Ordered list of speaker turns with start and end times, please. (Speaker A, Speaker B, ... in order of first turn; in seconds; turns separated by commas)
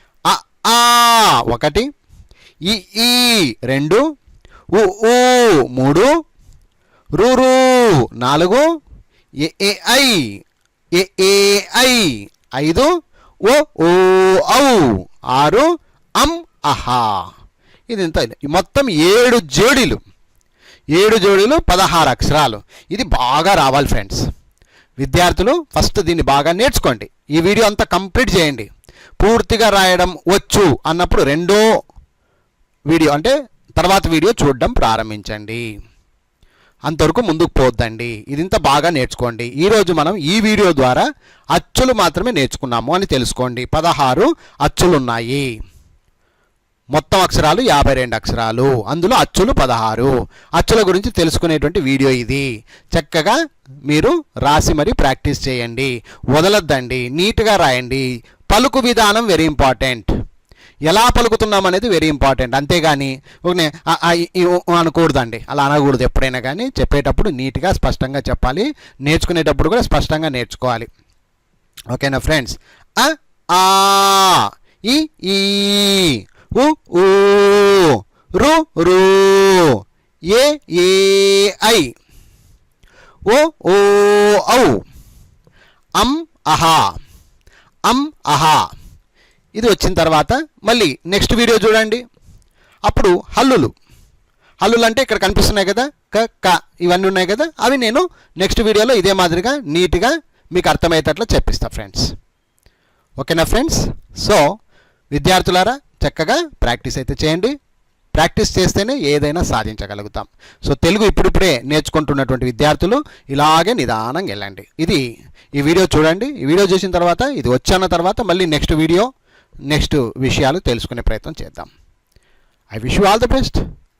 Speaker A: 0.3-1.9, Speaker A: 2.7-4.0, Speaker A: 4.7-6.1, Speaker A: 7.2-8.6, Speaker A: 9.4-10.2, Speaker A: 11.0-12.9, Speaker A: 13.4-15.7, Speaker A: 16.2-17.1, Speaker A: 17.9-20.0, Speaker A: 20.9-24.2, Speaker A: 25.0-28.7, Speaker A: 29.2-31.6, Speaker A: 32.9-35.6, Speaker A: 36.9-45.5, Speaker A: 46.9-60.1, Speaker A: 60.9-70.9, Speaker A: 71.9-79.8, Speaker A: 80.3-81.9, Speaker A: 83.3-84.7, Speaker A: 86.0-86.8, Speaker A: 87.9-88.6, Speaker A: 89.5-92.0, Speaker A: 92.9-93.7, Speaker A: 94.6-102.0, Speaker A: 103.2-104.4, Speaker A: 105.1-107.5, Speaker A: 108.1-115.0, Speaker A: 115.5-119.1, Speaker A: 119.7-121.7, Speaker A: 122.7-123.6